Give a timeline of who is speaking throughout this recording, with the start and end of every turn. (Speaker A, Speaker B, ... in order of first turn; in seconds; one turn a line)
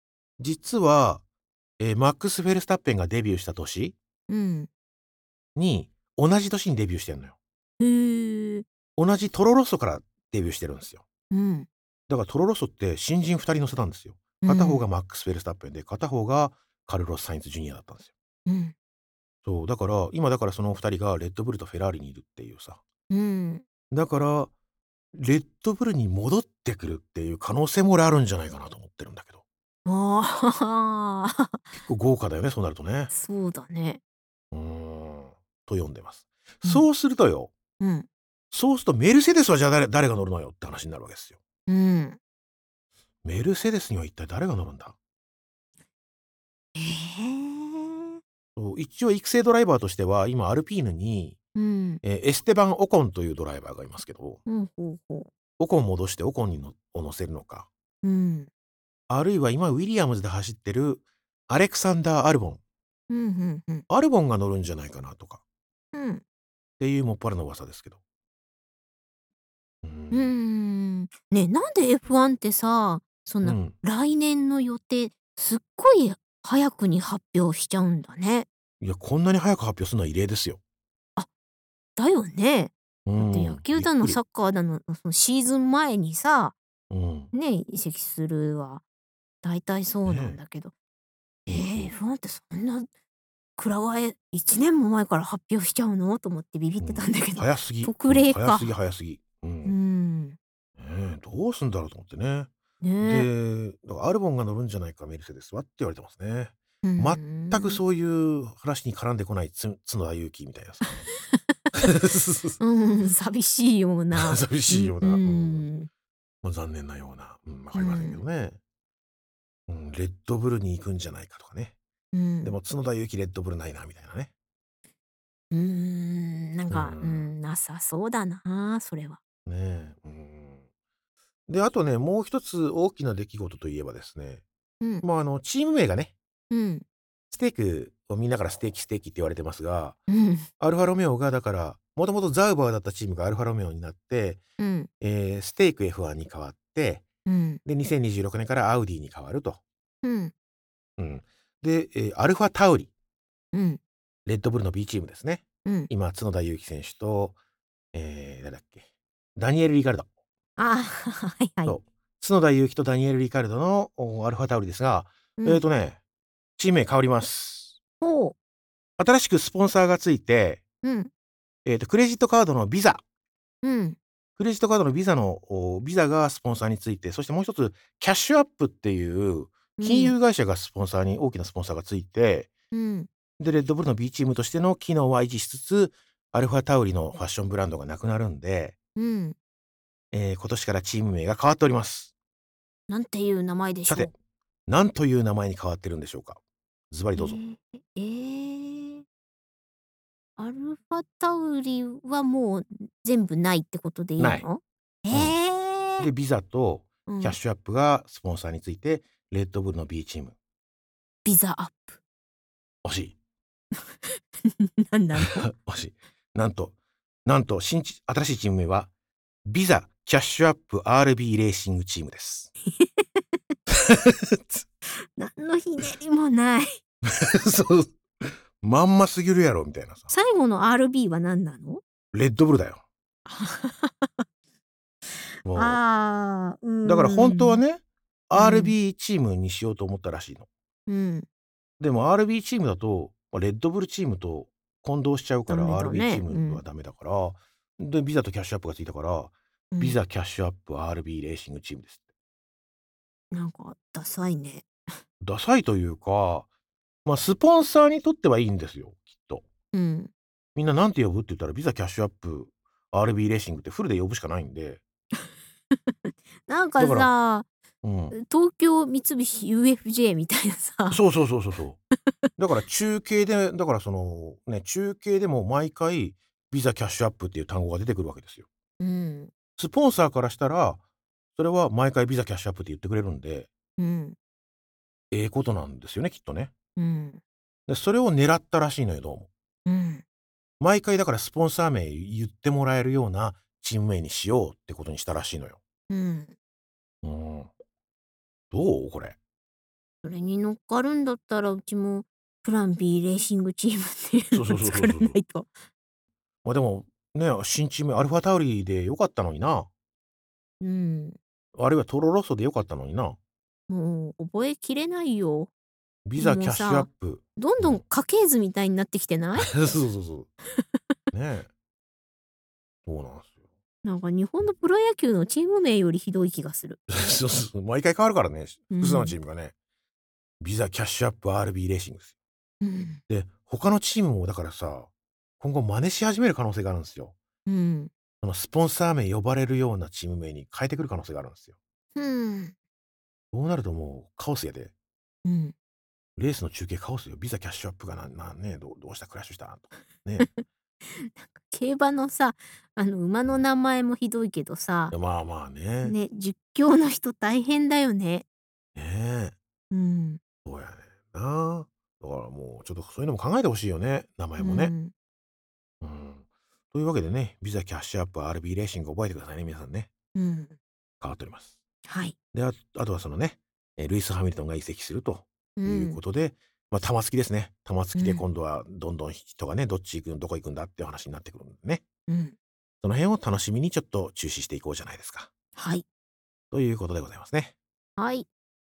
Speaker A: 0.4-1.2
Speaker A: 1.8-4.0
Speaker B: 4.3-4.7
Speaker A: 5.6-7.3
Speaker B: 7.8-8.7
Speaker A: 9.0-11.1
Speaker B: 11.3-11.7
Speaker A: 12.1-18.1
Speaker B: 14.4-14.8
Speaker B: 18.5-18.7
Speaker A: 19.4-22.8
Speaker B: 23.1-23.6
Speaker A: 23.9-24.5
Speaker A: 25.1-29.4
Speaker B: 29.9-31.6
Speaker A: 31.8-33.1
Speaker B: 33.1-34.0
Speaker A: 34.5-37.5
Speaker B: 37.8-38.1
Speaker A: 38.5-41.4
Speaker B: 41.7-42.2
Speaker A: 43.2-45.0
Speaker B: 46.8-48.2
Speaker A: 48.6-51.4
Speaker B: 51.5-52.0
Speaker A: 52.0-54.4
Speaker B: 54.5-55.3
Speaker A: 55.6-57.7
Speaker B: 58.0-58.5
Speaker A: 59.1-62.6
Speaker B: 63.1-63.8
Speaker A: 63.9-65.4
Speaker B: 65.9-66.2
Speaker A: 66.8-68.0
Speaker A: 69.8-70.3
Speaker B: 70.1-78.5
Speaker A: 73.4-73.8
Speaker A: 78.8-80.6
Speaker B: 82.0-86.5
Speaker A: 83.1-84.2
Speaker A: 86.9-87.3
Speaker B: 87.3-88.8
Speaker B: 89.4-90.7
Speaker A: 90.1-90.4
Speaker A: 91.5-91.9
Speaker B: 91.5-92.9
Speaker B: 93.6-98.7
Speaker A: 96.8-99.8
Speaker B: 99.7-100.4
Speaker A: 100.8-102.5
Speaker B: 102.8-103.3
Speaker A: 103.0-111.0
Speaker B: 106.8-107.8
Speaker B: 110.8-111.4
Speaker A: 111.8-112.6
Speaker B: 112.6-115.9
Speaker A: 114.1-115.7
Speaker A: 116.4-118.6
Speaker B: 117.7-118.2
Speaker A: 119.7-121.8
Speaker B: 122.1-122.6
Speaker A: 122.4-124.3
Speaker B: 125.5-129.2
Speaker A: 126.7-127.3
Speaker A: 129.4-130.6
Speaker A: 131.5-134.4
Speaker A: 135.0-136.1
Speaker B: 136.5-136.8
Speaker A: 137.3-140.0
Speaker B: 140.1-140.5
Speaker A: 140.6-144.4
Speaker B: 144.6-144.9
Speaker A: 145.0-147.1
Speaker B: 147.3-147.6
Speaker A: 147.7-149.6
Speaker B: 150.0-150.3
Speaker A: 151.0-152.9
Speaker B: 153.5-153.8
Speaker A: 154.3-157.4
Speaker B: 155.7-155.9
Speaker A: 157.9-158.8
Speaker A: 159.4-160.1
Speaker B: 160.6-161.8
Speaker A: 161.7-166.0
Speaker B: 165.4-165.6
Speaker A: 166.6-167.8
Speaker B: 168.0-168.4
Speaker A: 169.0-170.6
Speaker B: 170.8-171.1
Speaker A: 171.7-173.0
Speaker B: 173.6-174.0
Speaker A: 174.4-182.5
Speaker B: 179.8-180.2
Speaker B: 182.7-183.1
Speaker A: 183.4-188.8
Speaker B: 189.0-189.4
Speaker A: 190.1-192.1
Speaker B: 192.9-194.1
Speaker A: 194.7-196.4
Speaker A: 196.9-197.4
Speaker B: 197.2-199.0
Speaker B: 200.4-206.1
Speaker A: 204.2-204.5
Speaker A: 205.1-205.4
Speaker A: 206.0-210.3
Speaker B: 207.1-207.4
Speaker B: 211.2-212.0
Speaker A: 212.8-213.2
Speaker B: 214.0-215.5
Speaker A: 215.1-218.9
Speaker A: 219.4-222.5
Speaker B: 222.8-223.2
Speaker A: 223.7-224.7
Speaker B: 225.0-226.8
Speaker A: 227.1-230.1
Speaker B: 230.1-231.8
Speaker A: 232.1-232.8
Speaker B: 233.3-234.2
Speaker A: 235.4-235.8
Speaker B: 235.5-237.6
Speaker A: 236.8-240.5
Speaker B: 238.3-238.8
Speaker B: 240.9-241.3
Speaker A: 241.8-252.0
Speaker B: 245.5-246.6
Speaker B: 249.7-250.0
Speaker B: 253.3-254.7
Speaker A: 255.2-256.5
Speaker A: 257.1-259.4
Speaker B: 259.7-260.1
Speaker A: 260.6-264.8
Speaker B: 265.9-267.5
Speaker A: 266.8-267.1
Speaker A: 267.8-268.2
Speaker B: 268.1-271.0
Speaker A: 270.9-271.8
Speaker A: 272.4-278.5
Speaker B: 278.8-279.3
Speaker A: 279.6-280.8
Speaker A: 281.4-283.5
Speaker B: 283.8-284.2
Speaker A: 285.1-286.5
Speaker B: 286.8-287.2
Speaker A: 287.7-289.3
Speaker B: 289.7-290.0
Speaker A: 290.6-295.6
Speaker B: 295.9-296.3
Speaker A: 297.0-297.5
Speaker A: 298.5-299.2
Speaker B: 300.0-305.6
Speaker A: 304.3-305.2
Speaker A: 306.4-309.7
Speaker B: 310.6-311.2
Speaker A: 311.6-313.2
Speaker B: 313.7-315.5
Speaker A: 316.1-317.8
Speaker B: 316.2-319.5
Speaker A: 319.4-320.3
Speaker A: 321.1-321.5
Speaker A: 322.9-323.4
Speaker B: 323.8-326.8
Speaker A: 326.9-329.5
Speaker B: 328.7-329.2
Speaker A: 330.4-332.1
Speaker B: 332.6-333.0
Speaker A: 333.1-337.2
Speaker B: 337.5-337.9
Speaker A: 338.2-341.5
Speaker B: 342.0-342.5
Speaker A: 343.3-344.7
Speaker B: 345.2-345.5
Speaker A: 346.2-350.4
Speaker B: 350.2-354.9
Speaker A: 354.9-356.0
Speaker B: 355.8-358.2
Speaker A: 358.8-359.4
Speaker B: 359.7-360.2
Speaker A: 360.4-364.7
Speaker B: 364.4-364.9
Speaker A: 365.8-369.9
Speaker B: 370.1-370.6
Speaker A: 371.0-371.6
Speaker B: 371.9-372.2
Speaker A: 372.3-381.8
Speaker B: 375.6-376.0
Speaker B: 378.0-378.2
Speaker B: 382.1-382.4
Speaker A: 382.8-385.3
Speaker B: 385.6-385.8
Speaker A: 386.5-387.5
Speaker B: 388.0-388.3